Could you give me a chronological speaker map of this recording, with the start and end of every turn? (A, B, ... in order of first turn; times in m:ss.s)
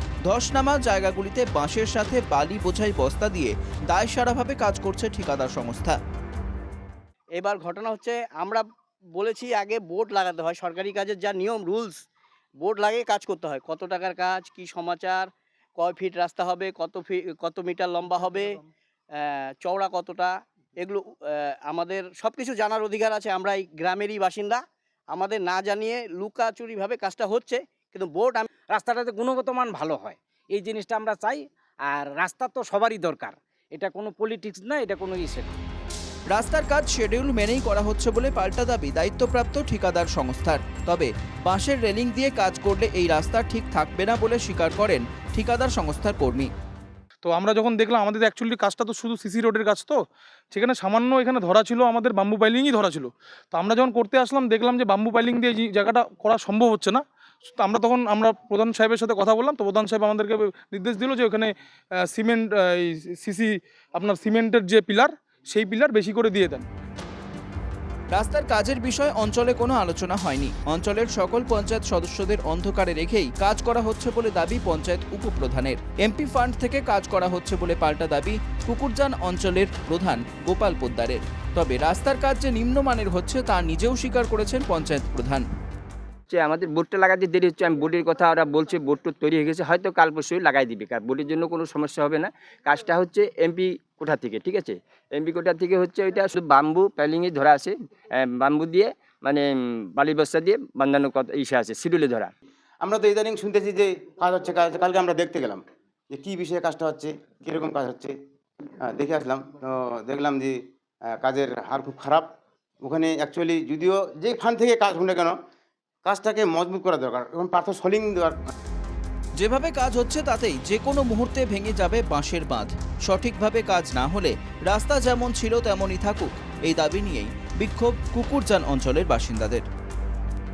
0:00.3-0:06.0 A
0:07.4-0:12.0 B
0:12.6-0:18.5 B
0:19.2-0:28.5 B
0:28.7-0:35.6 C
0:36.3-0:46.5 A
0:47.2-0:57.0 D
0:57.6-1:06.7 D
1:08.1-1:25.4 A
1:26.3-1:42.3 E
1:42.8-1:48.1 F
1:48.8-1:50.6 F
1:51.1-1:52.3 F
1:52.8-1:55.4 F
1:56.0-1:58.4 F
1:59.4-2:09.6 A